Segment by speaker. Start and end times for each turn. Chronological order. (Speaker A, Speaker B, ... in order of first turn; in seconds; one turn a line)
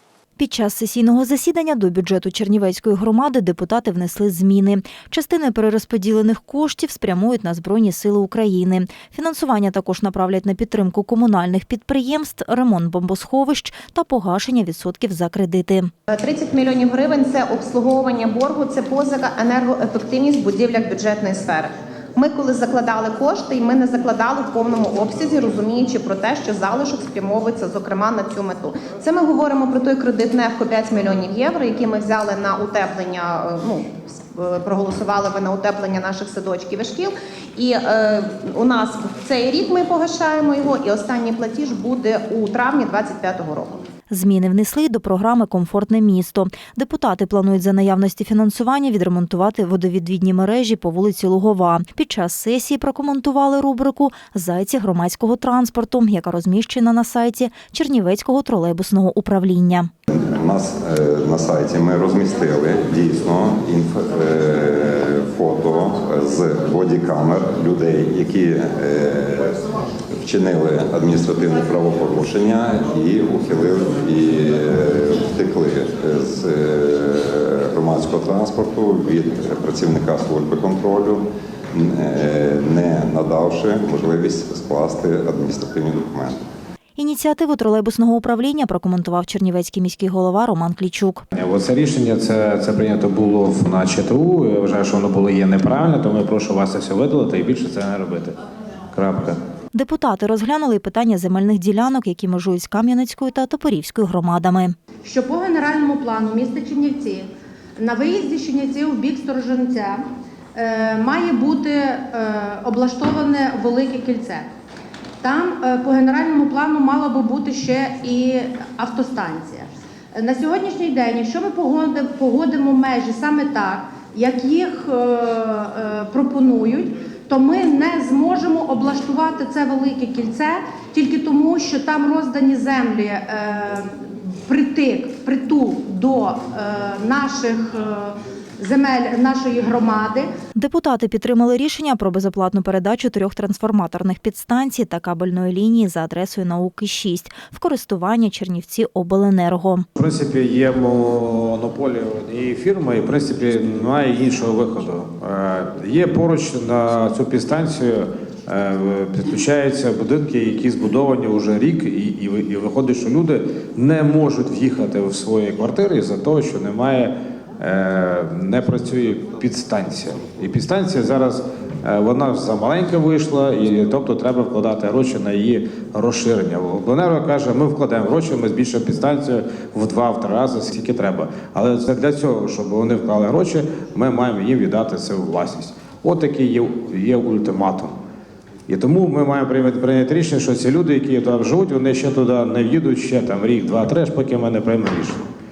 Speaker A: 0.4-15.9
Speaker B: 16.1-43.8
Speaker A: 44.1-59.9
Speaker C: 60.1-69.6
Speaker C: 70.2-86.4
Speaker A: 87.0-91.2
Speaker D: 91.3-98.4
Speaker D: 98.9-99.4
Speaker A: 99.7-104.7
Speaker E: 105.0-110.0
Speaker E: 110.5-114.5
Speaker E: 115.2-140.3
Speaker A: 140.5-149.8
Speaker D: 149.9-187.9
Speaker D: 188.7-195.2